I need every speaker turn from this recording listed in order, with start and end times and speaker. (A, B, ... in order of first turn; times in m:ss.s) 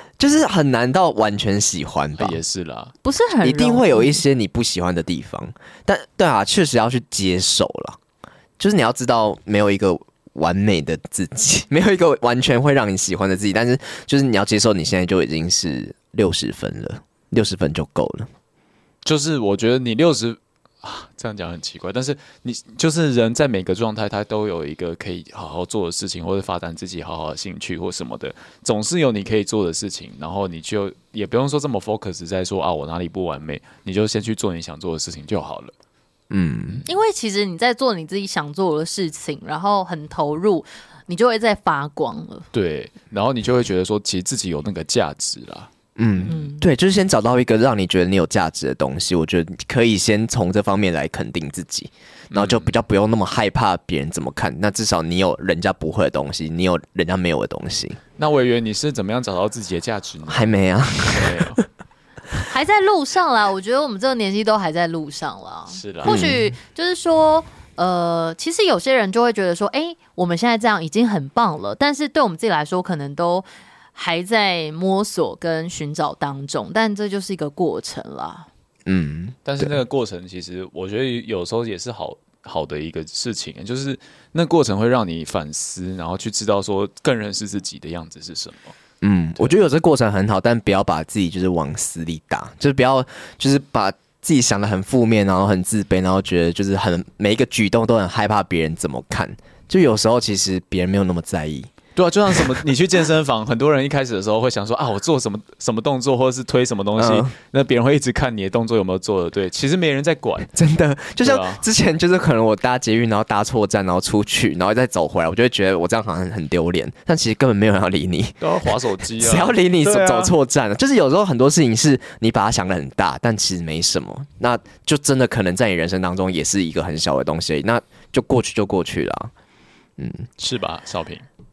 0:00.2-0:02.4 A
0:02.2-0:02.9 B
0:03.0-0:04.2 C
0:03.4-0:08.0 A
0:08.6-0:18.3 A
0:19.0-0:35.7 B
0:36.3-0:36.8 A
0:36.9-0:42.5 C
0:42.5-0:46.3 B
0:46.0-0:58.0 A
0:46.3-0:46.6 C
0:52.3-0:52.7 B
0:58.2-1:00.5 B
1:00.3-1:01.6 A
1:01.1-1:01.6 B
1:02.5-1:18.5 C
1:05.7-1:06.2 B
1:06.0-1:06.5 A
1:18.9-1:19.7 A
1:19.4-1:28.8 B
1:29.0-1:41.7 A
1:42.0-1:50.5 B
1:47.0-1:47.3 A
1:50.5-1:58.4 A
1:51.2-1:51.6 B
1:58.4-2:00.3 B
1:59.2-2:09.3 A
2:10.0-2:10.3 A
2:10.4-2:11.2 B